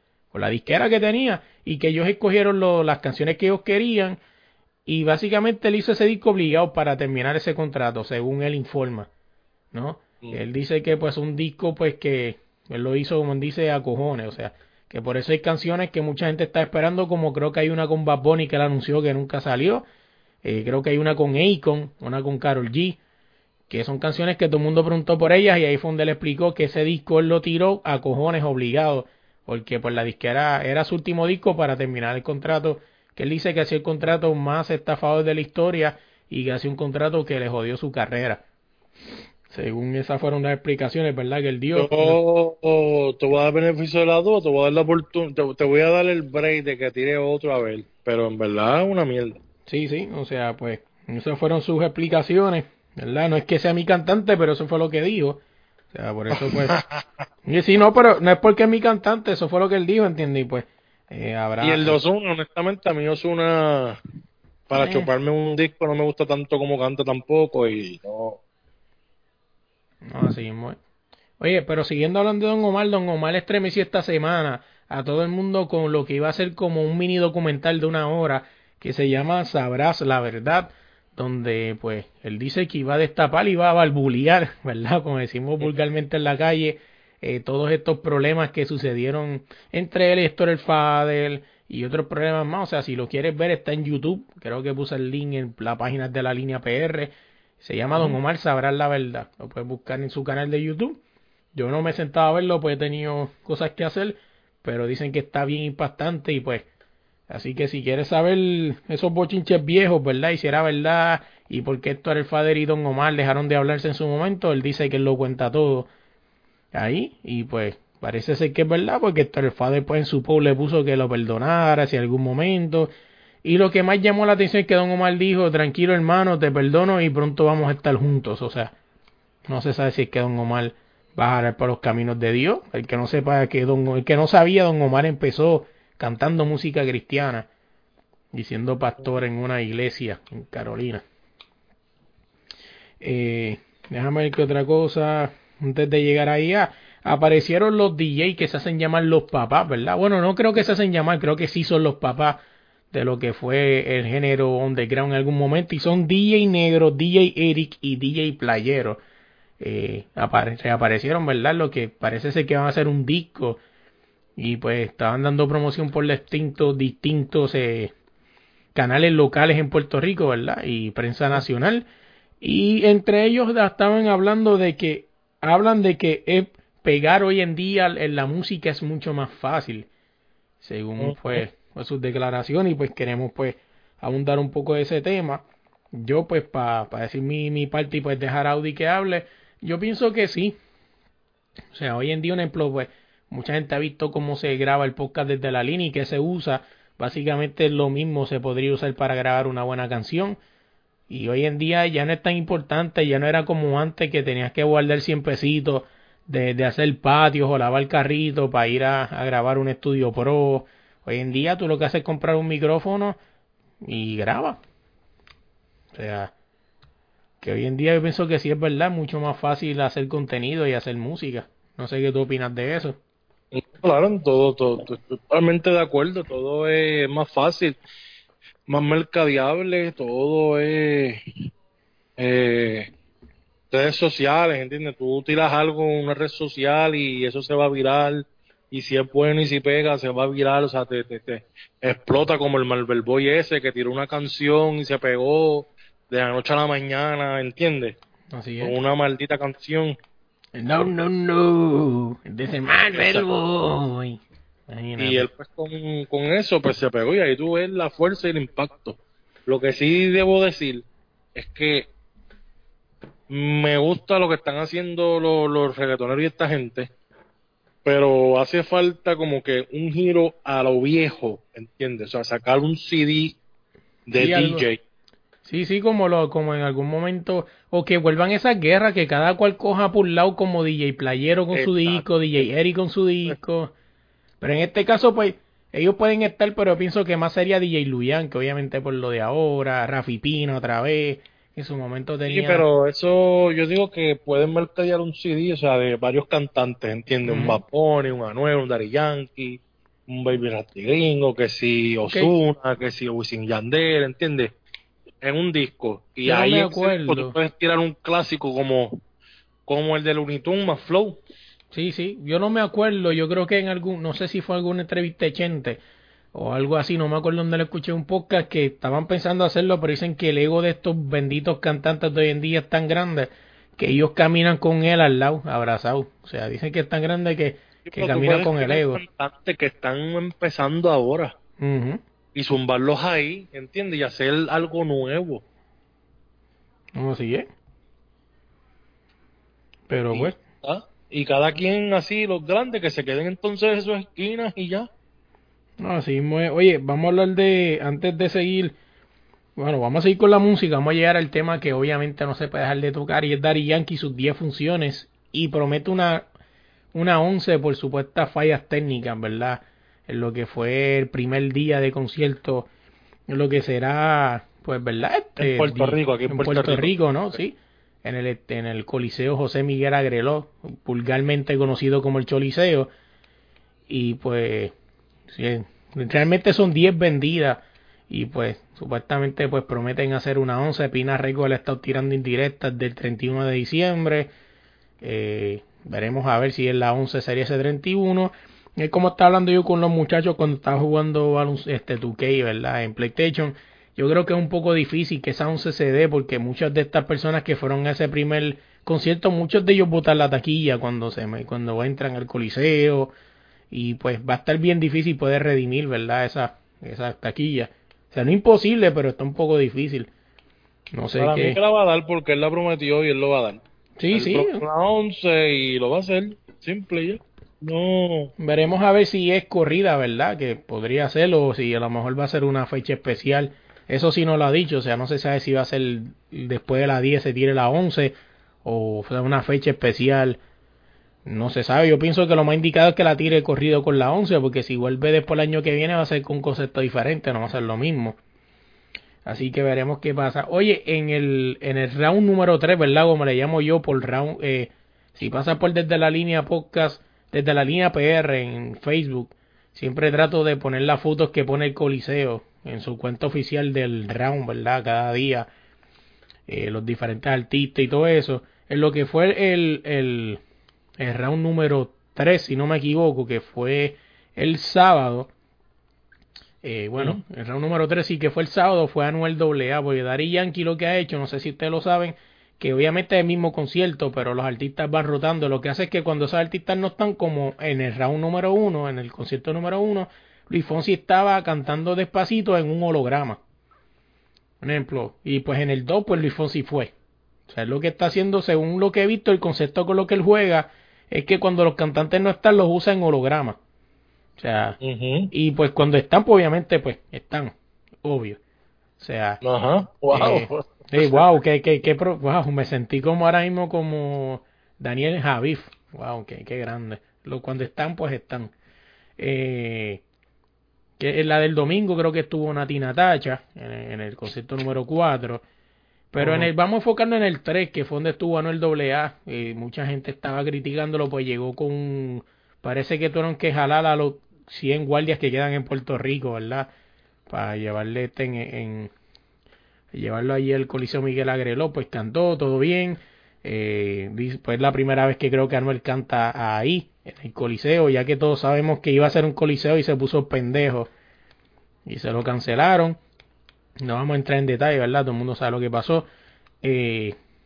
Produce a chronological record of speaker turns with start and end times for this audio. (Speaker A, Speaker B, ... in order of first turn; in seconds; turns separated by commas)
Speaker A: 0.3-4.2, Speaker A: 4.8-9.1, Speaker A: 9.7-19.8, Speaker A: 20.4-23.0, Speaker A: 23.7-38.4, Speaker A: 39.5-42.2, Speaker B: 41.7-49.4, Speaker A: 49.6-55.4, Speaker A: 55.9-56.8, Speaker B: 56.3-57.0, Speaker A: 57.5-62.0, Speaker B: 61.6-64.0, Speaker B: 64.7-68.4, Speaker A: 64.7-65.1, Speaker A: 70.0-70.8, Speaker A: 71.4-101.0, Speaker A: 101.5-106.7, Speaker A: 107.3-115.9, Speaker A: 116.7-122.9, Speaker A: 123.4-128.7, Speaker A: 129.5-137.5, Speaker A: 138.3-141.0, Speaker A: 143.0-152.4, Speaker A: 152.9-159.0, Speaker A: 159.6-163.6, Speaker A: 164.4-167.9, Speaker A: 168.7-171.8, Speaker A: 172.4-179.9, Speaker A: 180.6-190.6, Speaker B: 181.0-181.4, Speaker A: 191.7-200.4, Speaker A: 201.1-213.2, Speaker A: 213.8-214.6, Speaker A: 215.9-216.3, Speaker A: 217.4-223.0, Speaker B: 223.5-227.8, Speaker B: 228.7-231.2, Speaker B: 232.2-232.9, Speaker B: 233.7-247.9, Speaker A: 248.3-248.7, Speaker B: 248.6-249.9, Speaker A: 250.5-255.3, Speaker B: 252.9-253.3, Speaker B: 255.0-261.9, Speaker B: 263.3-266.9, Speaker B: 267.8-273.4, Speaker B: 274.1-274.8, Speaker A: 274.1-274.6, Speaker A: 275.4-283.7, Speaker B: 281.5-282.0, Speaker A: 284.4-292.6, Speaker B: 292.3-304.5, Speaker A: 297.2-297.6, Speaker B: 305.2-309.0, Speaker A: 306.2-307.3, Speaker B: 309.7-311.2, Speaker A: 311.7-315.8, Speaker A: 316.3-329.0, Speaker B: 327.9-331.3, Speaker A: 331.6-332.0, Speaker B: 332.3-335.4, Speaker A: 336.9-337.5, Speaker A: 339.9-340.4, Speaker B: 340.1-344.9, Speaker A: 345.8-348.7, Speaker A: 349.6-356.2, Speaker A: 356.9-362.7, Speaker A: 363.3-372.9, Speaker B: 365.4-367.4, Speaker A: 373.9-374.7, Speaker A: 375.3-384.3, Speaker A: 385.0-403.1, Speaker A: 403.7-410.1, Speaker A: 410.9-411.6, Speaker B: 411.2-418.3, Speaker A: 414.0-414.6, Speaker A: 418.4-430.4, Speaker A: 431.2-438.2, Speaker A: 439.2-455.5, Speaker A: 456.5-460.4, Speaker A: 461.0-465.3, Speaker A: 466.6-483.4, Speaker A: 484.6-486.9, Speaker A: 487.5-493.6, Speaker A: 494.4-494.8, Speaker B: 494.8-495.3, Speaker A: 495.3-498.4, Speaker A: 499.0-499.4, Speaker B: 499.4-501.2, Speaker A: 500.1-508.5, Speaker A: 509.2-510.0, Speaker A: 511.0-515.4, Speaker A: 516.1-526.7, Speaker B: 516.2-516.5, Speaker A: 527.3-528.9, Speaker A: 529.9-540.9, Speaker A: 541.9-543.0, Speaker A: 543.8-546.1, Speaker A: 546.6-547.1